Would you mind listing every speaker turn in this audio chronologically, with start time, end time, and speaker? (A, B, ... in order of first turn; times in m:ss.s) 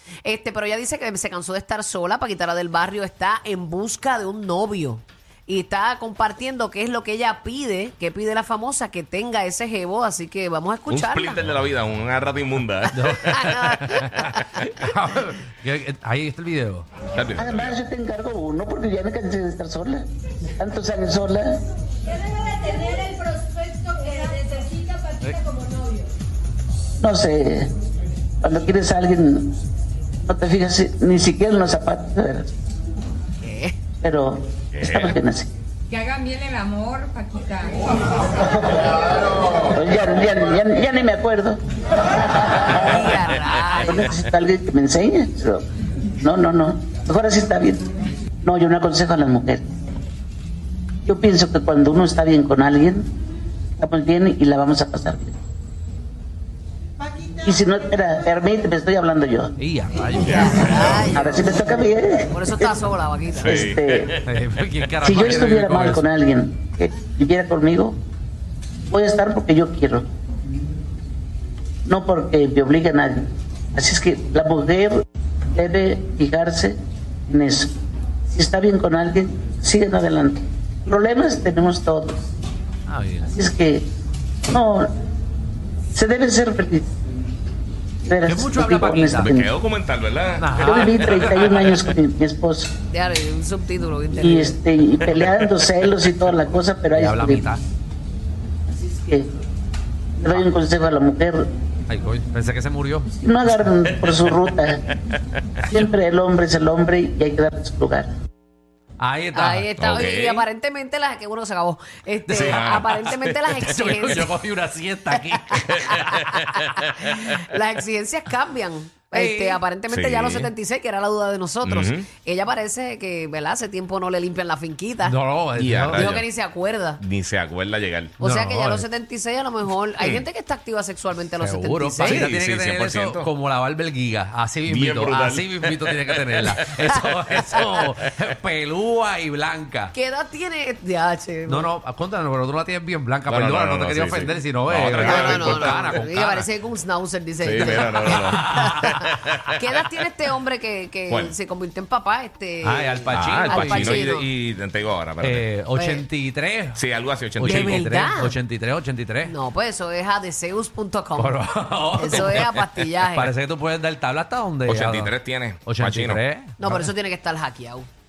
0:00.2-0:11.4 A
0:10.9-0:14.7 B
0:12.9-0:16.9 C
0:13.3-0:14.5 A
0:17.1-0:17.7 B
0:17.4-0:20.0 D
0:20.6-0:21.6 D
0:27.0-0:27.7 D
0:28.4-0:29.5 D
0:30.2-0:32.5 D
0:33.4-0:33.8 A
0:34.0-0:35.5 D
0:34.7-0:35.2 B
0:35.9-0:37.9 E
0:39.5-0:41.6 D
0:42.2-0:45.6 D
0:42.6-0:44.1 A
0:46.2-0:47.9 D
0:48.4-0:49.7 D
0:51.0-0:53.1 D
0:53.8-0:55.4 D
0:57.4-0:59.5 D
0:59.6-1:01.0 C
1:00.2-1:00.9 B
1:00.3-1:01.7 A
1:00.8-1:02.8 D
1:02.3-1:03.7 A
1:03.4-1:04.1 D
1:03.4-1:04.3 B
1:04.2-1:06.0 C
1:05.0-1:07.9 D
1:08.9-1:10.0 D
1:11.8-1:15.0 D
1:15.5-1:16.8 D
1:17.3-1:17.7 D
1:18.3-1:22.2 D
1:22.9-1:23.4 C
1:23.3-1:23.8 D
1:24.5-1:24.9 D
1:25.9-1:26.9 D
1:28.0-1:29.5 D
1:28.2-1:29.4 C
1:29.2-1:31.7 B
1:30.4-1:31.3 C
1:30.6-1:32.7 D
1:32.9-1:34.6 A
1:34.2-1:37.5 D
1:35.1-1:35.5 B
1:36.9-1:37.6 C
1:38.7-1:39.3 D
1:40.2-1:41.4 D
1:41.9-1:43.1 C
1:43.2-1:44.9 D
1:44.0-1:44.3 B
1:45.7-1:48.1 D
1:49.0-1:49.7 C
1:49.3-1:54.3 A
1:49.8-1:50.5 B
1:52.3-1:52.8 C
1:52.3-1:54.2 B
1:53.6-1:56.7 C
1:55.5-2:05.2 A
1:55.9-1:57.4 B
1:59.1-1:59.6 C
1:59.9-2:00.5 B
2:01.6-2:02.0 B
2:05.0-2:06.2 C
2:05.6-2:06.3 B
2:05.9-2:07.0 A
2:07.0-2:08.2 B
2:08.2-2:08.8 C
2:08.2-2:12.3 A
2:10.0-2:10.2 B
2:11.4-2:19.9 C
2:12.0-2:13.3 B
2:14.7-2:17.8 B
2:19.9-2:21.7 A
2:21.4-2:26.5 C
2:23.3-2:26.0 B
2:25.0-2:34.3 A
2:27.4-2:29.6 B
2:27.6-2:29.0 C
2:31.1-2:31.3 B
2:32.6-2:34.2 C
2:33.1-2:35.4 B
2:35.2-2:39.3 C
2:35.7-2:36.0 A
2:36.7-2:37.9 B
2:37.4-2:38.3 A
2:39.2-2:41.4 A
2:41.2-2:46.9 C
2:41.9-2:43.3 A
2:42.0-2:42.4 B
2:44.6-2:46.2 B
2:46.6-2:47.9 A